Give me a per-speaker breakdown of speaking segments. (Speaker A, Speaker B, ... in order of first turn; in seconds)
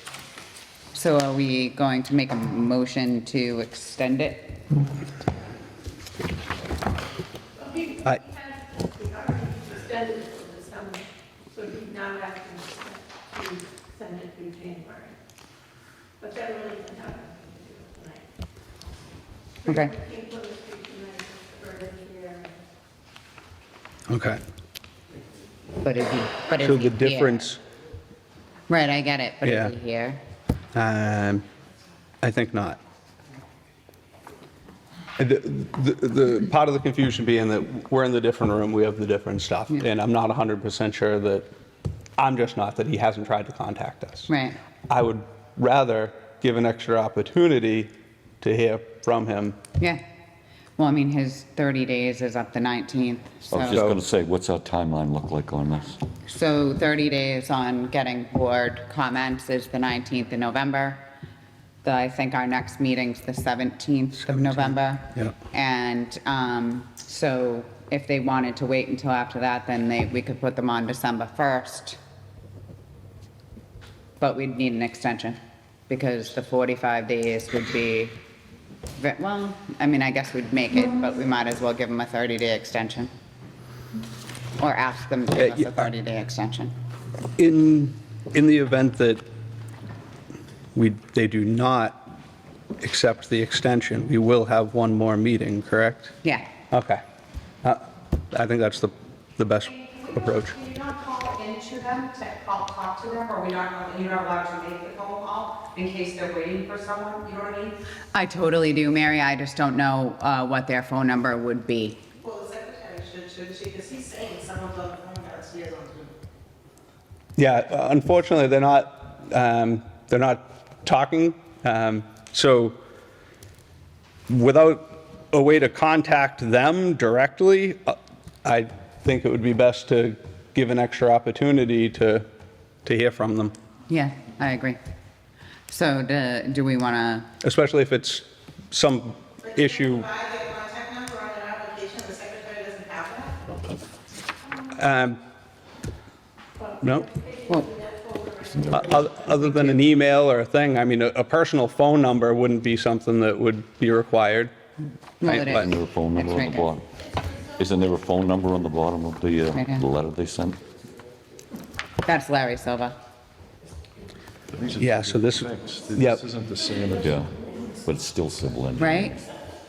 Speaker A: 0.9-4.6, 19.6-19.9, 25.8-27.4, 28.7-30.2, 44.3-44.6, 50.8-53.8, 56.2-61.0, 61.8-72.0, 74.2-75.4, 75.9-78.2, 79.0-83.1, 84.6-86.7, 108.1-112.0, 133.9-134.8, 135.7-137.3, 155.2-156.7, 159.5-159.8, 162.0-162.9, 168.8-169.2
Speaker B: 7.6-15.1, 16.2-18.2, 19.6-22.5, 146.6-149.4
Speaker C: 24.1-24.4, 26.6-27.6, 29.4-29.7, 30.7-31.4, 32.2-32.8, 35.2-41.5, 42.2-44.3, 44.9-47.9, 48.4-49.6, 53.6-54.0, 64.2-65.3, 85.4-85.7, 87.4-89.2, 90.7-92.1, 92.8-96.1, 96.7-97.0, 97.6-100.6, 117.4-122.8, 124.3-132.2, 132.8-133.5, 137.4-140.2, 144.7-145.2, 148.7-154.5, 155.2-155.7, 164.8-166.2
Speaker D: 53.5-56.0, 155.3-160.6, 167.0-169.2
Speaker E: 100.7-107.7, 112.4-115.8, 140.7-143.0
Speaker F: 164.5-167.2